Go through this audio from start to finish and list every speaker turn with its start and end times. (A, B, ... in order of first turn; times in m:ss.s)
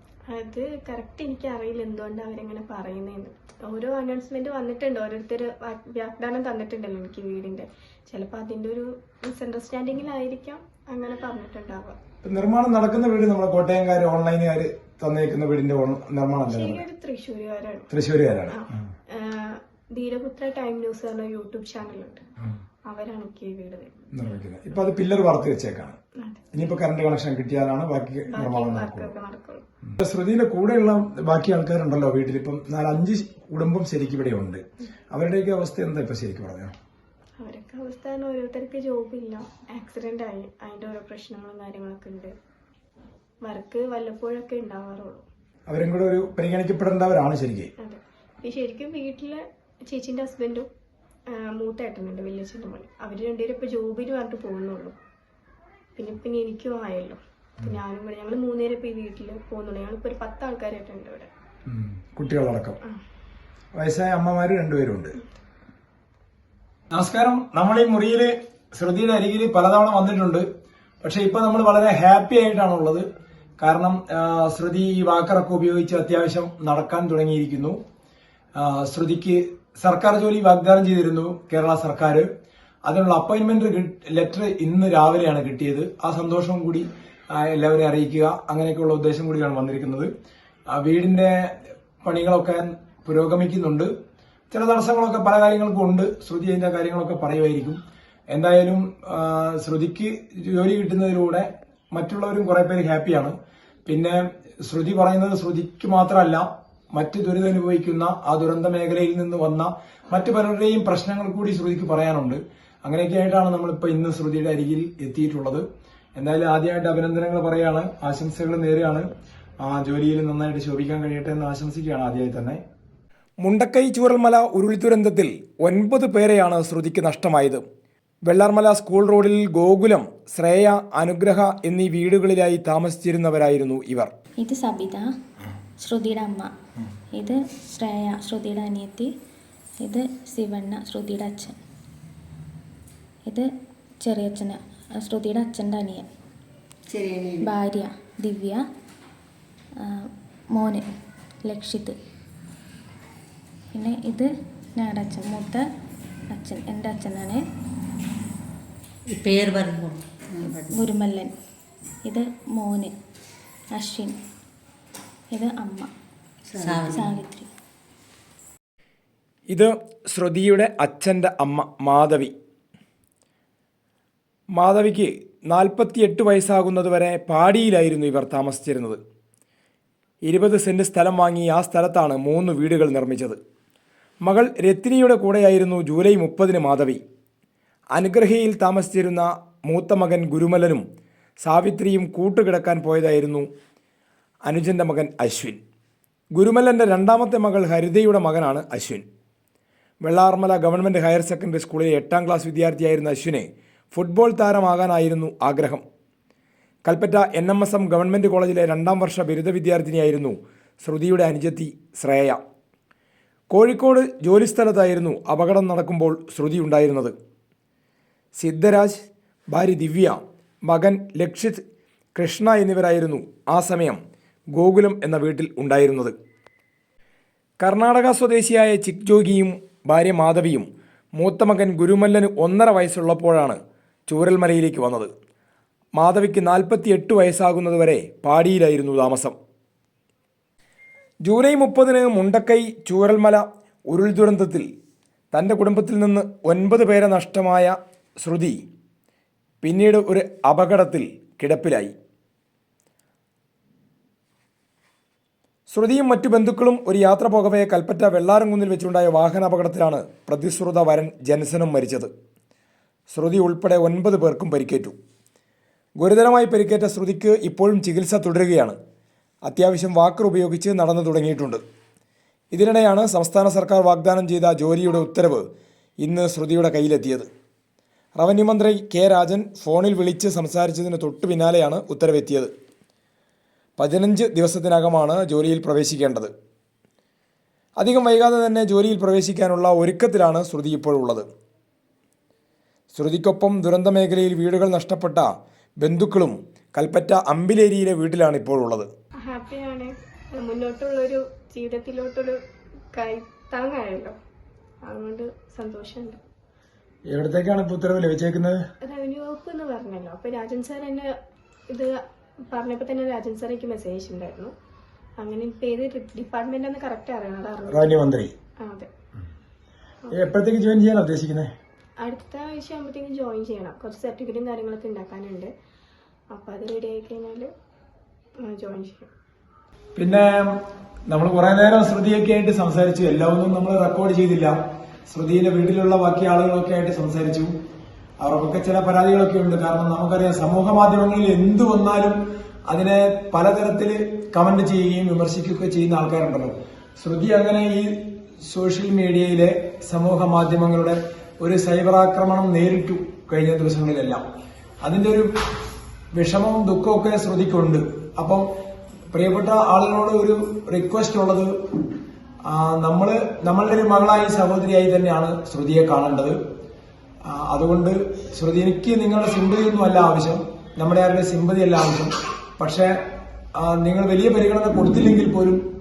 0:00.3-0:12.0 A
0:12.2-0:16.8 B
0:16.5-0:17.9 A
0:17.9-0:18.6 B
0:18.5-0:22.2 A
0:22.9-0:23.9 A
0:24.1-0:26.0 B
0:26.2-0:26.5 A
0:26.5-0:29.1 B
0:28.3-0:29.6 A
0:30.0-0:36.7 B
0:37.4-0:42.4 A
0:43.4-0:45.3 A
0:45.7-0:47.7 B
0:47.8-0:50.7 A
0:51.3-0:55.0 A
0:56.0-1:01.3 A
1:01.7-1:02.8 B
1:03.7-1:05.2 B
1:06.9-1:10.5 B
1:11.0-1:13.1 B
1:13.6-1:17.8 B
1:18.6-1:22.3 B
1:22.8-1:30.1 B
1:30.7-1:33.9 B
1:34.5-1:37.8 B
1:38.3-1:55.6 B
1:56.2-1:59.1 B
1:59.6-2:02.6 B
2:03.4-2:07.6 B
2:08.3-2:14.1 B
2:14.4-2:15.0 C
2:15.8-2:16.5 C
2:17.2-2:19.1 C
2:19.8-2:21.6 C
2:24.0-2:26.1 C
2:26.9-2:27.5 D
2:27.4-2:28.6 C
2:30.6-2:30.8 C
2:31.5-2:32.0 C
2:33.8-2:35.6 C
2:36.3-2:37.4 C
2:39.1-2:40.8 D
2:40.5-2:41.3 C
2:42.1-2:42.9 C
2:43.8-2:44.2 C
2:45.4-2:45.9 C
2:46.5-2:47.2 D
2:46.9-2:47.5 C
2:49.5-2:52.3 B
2:54.6-2:59.0 B
3:00.2-3:03.4 B
3:04.2-3:07.0 B
3:08.0-3:10.8 B
3:11.4-3:13.5 B
3:14.5-3:15.6 B
3:16.4-3:19.0 B
3:20.0-3:25.8 B
3:26.9-3:32.4 B
3:33.5-3:37.2 B
3:38.4-3:41.6 B
3:42.2-3:44.0 B
3:44.6-3:46.2 B
3:47.6-3:55.1 B
3:56.0-3:59.4 B
4:01.2-4:04.7 B
4:05.3-4:08.6 B
4:09.6-4:11.9 B
4:15.7-4:22.1 B
4:23.1-4:25.0 B
4:26.0-4:28.8 B
4:29.5-4:31.6 B
4:32.5-4:35.5 B
4:36.0-4:37.3 B
4:38.2-4:42.5 B
4:43.8-4:46.3 B
4:47.8-4:51.3 B
4:52.9-4:58.9 B
4:59.2-5:02.4 A
5:03.0-5:04.2 A
5:04.8-5:06.2 A
5:07.1-5:08.6 B
5:08.8-5:11.1 A
5:11.7-5:14.5 A
5:15.2-5:18.0 A
5:17.7-5:18.3 B
5:18.6-5:18.9 A
5:20.1-5:21.5 B
5:22.0-5:25.5 A
5:26.3-5:27.5 A
5:28.4-5:29.1 A
5:30.0-5:30.6 B
5:31.1-5:34.5 B
5:35.1-5:37.5 B
5:38.2-5:54.2 B
5:54.8-5:55.3 B
5:56.2-5:58.5 B
5:59.1-6:01.6 B
6:02.4-6:06.4 B
6:07.2-6:13.0 B
6:13.6-6:15.6 B